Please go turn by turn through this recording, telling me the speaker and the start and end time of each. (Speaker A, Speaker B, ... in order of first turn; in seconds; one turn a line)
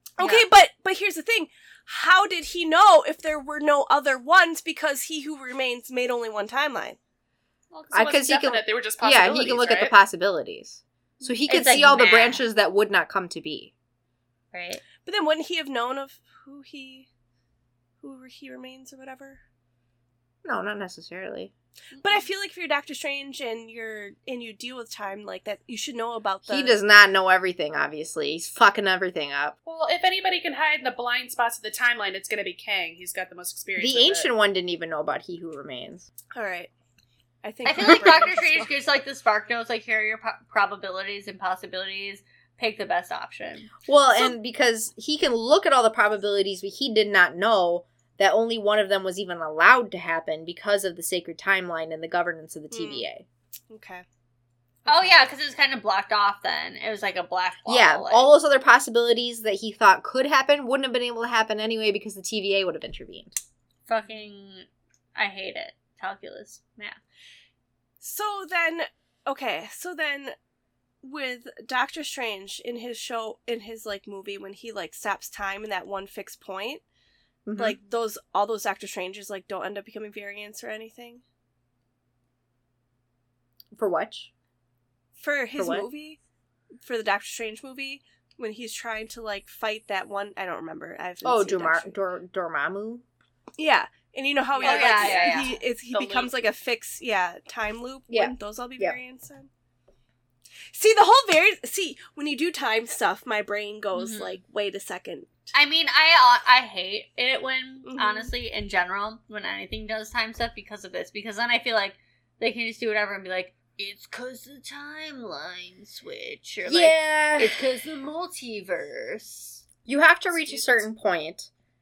Speaker A: 0.2-7.0
Speaker B: 0.2-0.5
Speaker C: 7.7-9.9
Speaker D: 7.9-13.7
Speaker B: 11.5-12.4
Speaker B: 14.5-14.8
Speaker A: 15.0-17.1
Speaker A: 18.0-19.4
Speaker D: 20.4-21.5
Speaker A: 22.0-26.8
Speaker D: 26.5-29.6
Speaker C: 29.7-34.3
Speaker D: 33.8-36.1
Speaker A: 36.3-36.7
Speaker A: 37.4-38.7
Speaker B: 37.6-43.7
Speaker D: 37.8-38.2
Speaker D: 43.9-53.3
Speaker A: 52.7-53.1
Speaker A: 53.7-54.0
Speaker B: 54.9-58.3
Speaker D: 57.7-63.4
Speaker B: 63.9-67.0
Speaker A: 68.0-70.3
Speaker A: 71.0-76.8
Speaker D: 77.5-77.8
Speaker A: 77.6-81.2
Speaker D: 83.8-84.3
Speaker A: 85.2-86.2
Speaker D: 85.6-85.9
Speaker A: 86.8-92.0
Speaker D: 91.2-93.0
Speaker A: 93.6-99.5
Speaker C: 94.5-96.3
Speaker B: 94.6-95.6
Speaker D: 98.1-99.0
Speaker A: 100.7-105.3
Speaker B: 103.9-104.4
Speaker B: 105.5-119.6
Speaker A: 107.8-108.3
Speaker D: 116.7-117.6
Speaker D: 119.9-121.5
Speaker C: 120.3-120.8